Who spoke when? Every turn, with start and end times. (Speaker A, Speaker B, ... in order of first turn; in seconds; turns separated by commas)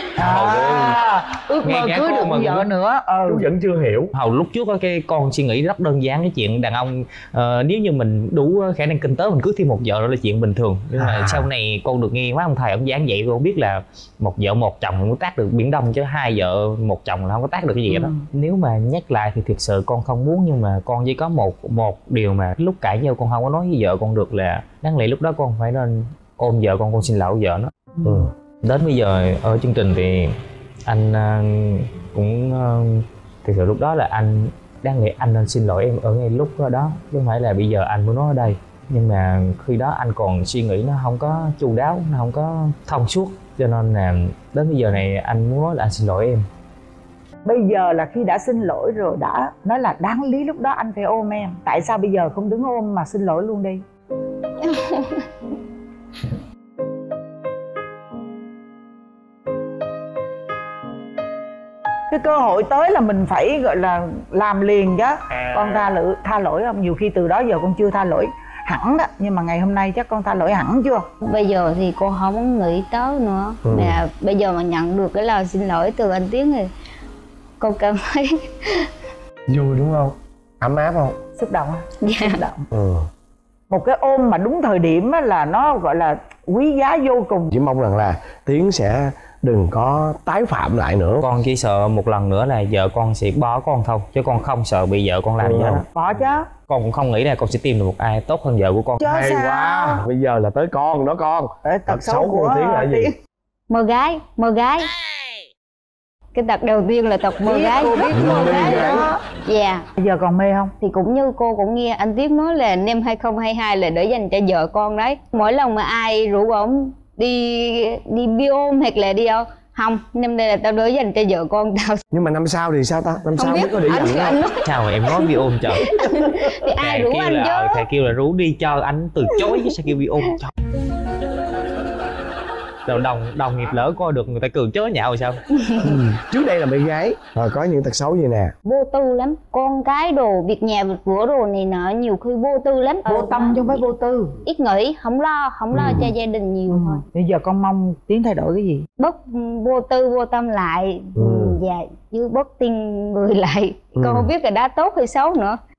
Speaker A: 0.2-3.5, Speaker B: 0.3-0.9, Speaker B: 1.7-2.6, Speaker B: 3.3-4.1, Speaker C: 4.1-27.7, Speaker B: 10.9-11.5, Speaker A: 17.9-18.2, Speaker C: 28.6-30.3, Speaker C: 30.9-46.5, Speaker A: 47.5-53.8, Speaker A: 62.1-71.1, Speaker D: 71.2-76.7, Speaker B: 73.7-74.0, Speaker D: 77.6-78.9, Speaker B: 79.5-81.2, Speaker A: 81.4-82.7, Speaker D: 82.0-82.4, Speaker B: 82.7-83.1, Speaker A: 83.7-87.5, Speaker B: 87.5-91.2, Speaker C: 91.2-95.8, Speaker B: 95.4-95.8, Speaker A: 95.8-96.5, Speaker C: 96.7-99.0, Speaker A: 99.0-100.0, Speaker B: 99.0-103.1, Speaker A: 101.7-103.1, Speaker D: 103.7-104.9, Speaker D: 106.3-108.9, Speaker A: 107.4-109.2, Speaker B: 108.1-109.1, Speaker D: 109.5-109.8, Speaker A: 110.0-110.7, Speaker D: 110.8-122.0, Speaker B: 122.1-124.4, Speaker D: 123.4-124.6, Speaker C: 124.6-125.9, Speaker D: 125.8-127.8, Speaker C: 126.8-130.5, Speaker C: 132.9-135.4, Speaker B: 135.8-138.6, Speaker D: 138.7-143.8, Speaker A: 143.1-144.4, Speaker D: 144.4-147.0, Speaker B: 145.7-146.1, Speaker A: 146.7-148.9, Speaker D: 149.0-155.6, Speaker B: 151.2-151.6, Speaker B: 153.9-154.3